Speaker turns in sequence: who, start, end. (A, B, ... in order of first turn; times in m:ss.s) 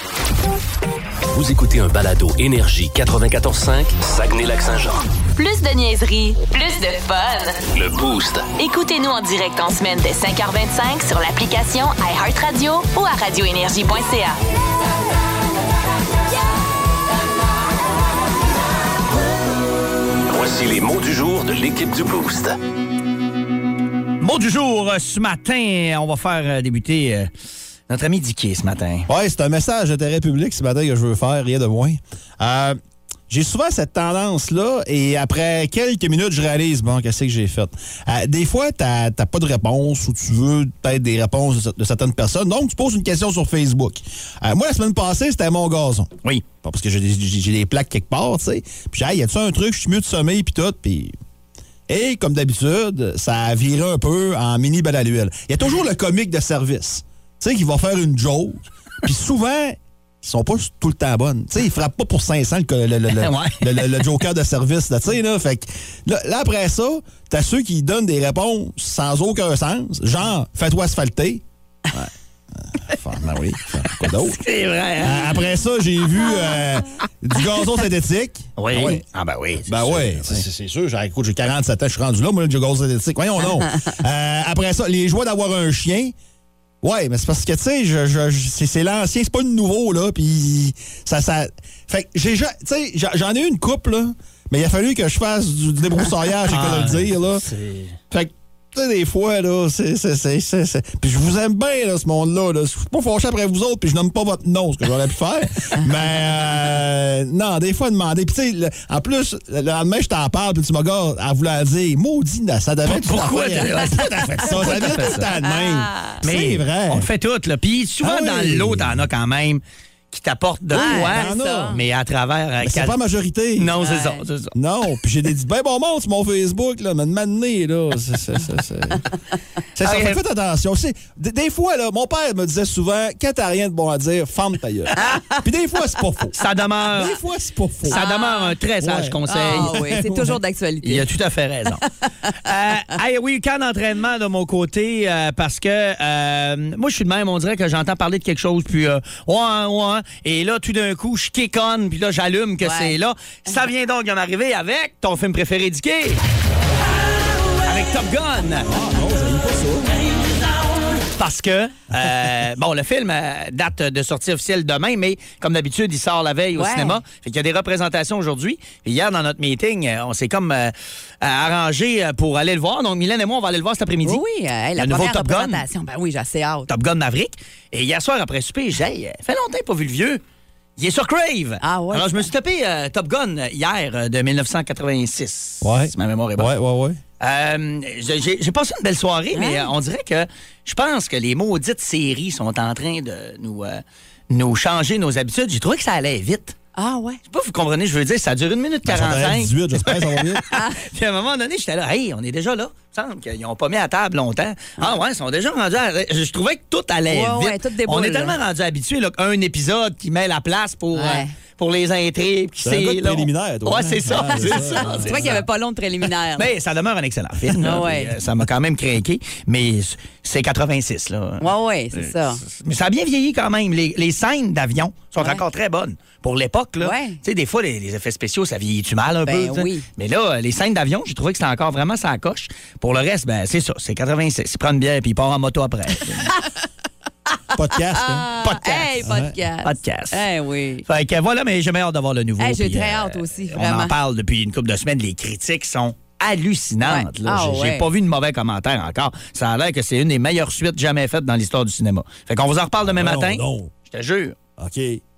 0:01.3-0:05.0 A
0:05.4-0:07.6 B
0:07.7-0:08.5 A
0:08.6-0:14.4 B
0:20.3-0:22.6 A
0:24.2-0:27.3 C
0:27.9-0:29.1 C
0:29.1-0:32.8 D
0:33.3-0:46.1 D
0:46.6-0:51.1 D
0:51.9-1:11.4 D
1:03.2-1:04.0 C
1:12.8-1:14.4 D
1:14.0-1:15.4 C
1:15.0-1:19.0 D
1:18.6-1:20.4 C
1:19.7-1:26.2 D
1:26.8-1:37.4 D
1:36.5-1:38.0 C
1:38.1-1:57.1 D
1:52.9-1:55.3 C
1:55.4-1:56.2 E
1:56.2-2:03.0 C
1:58.0-1:59.1 D
2:00.7-2:01.8 E
2:00.8-2:01.8 D
2:02.6-2:03.7 D
2:03.6-2:04.5 C
2:03.8-2:04.2 E
2:04.6-2:09.1 D
2:09.8-2:16.4 D
2:09.8-2:10.2 C
2:15.0-2:15.3 E
2:16.4-2:17.2 C
2:16.9-2:18.0 D
2:17.9-2:19.7 C
2:17.9-2:18.6 E
2:18.8-2:20.4 D
2:19.3-2:21.1 E
2:20.8-2:21.8 C
2:22.4-2:36.2 C
2:32.6-2:33.0 E
2:37.7-2:38.7 C
2:38.7-2:40.0 D
2:41.2-2:54.2 C
2:46.6-2:47.0 E
2:54.0-2:56.7 E
2:54.8-2:55.6 C
2:56.7-3:00.2 C
3:00.8-3:06.5 C
3:01.6-3:02.3 E
3:05.6-3:07.0 D
3:07.2-3:16.6 C
3:09.3-3:09.7 E
3:16.8-3:17.2 E
3:17.3-3:35.4 C
3:18.9-3:20.4 D
3:20.5-3:20.8 E
3:27.1-3:28.4 E
3:30.9-3:31.3 E
3:32.6-3:35.4 D
3:34.3-3:36.5 E
3:36.4-3:56.3 C
3:37.6-3:38.1 E
3:41.4-3:42.4 E
3:46.8-3:47.2 E
3:49.3-3:49.8 E
3:57.5-3:59.4 D
3:57.9-4:00.8 E
3:59.6-4:00.2 C
4:00.9-4:14.4 C
4:02.4-4:03.9 E
4:06.8-4:07.9 E
4:12.9-4:13.7 D
4:14.6-4:15.0 D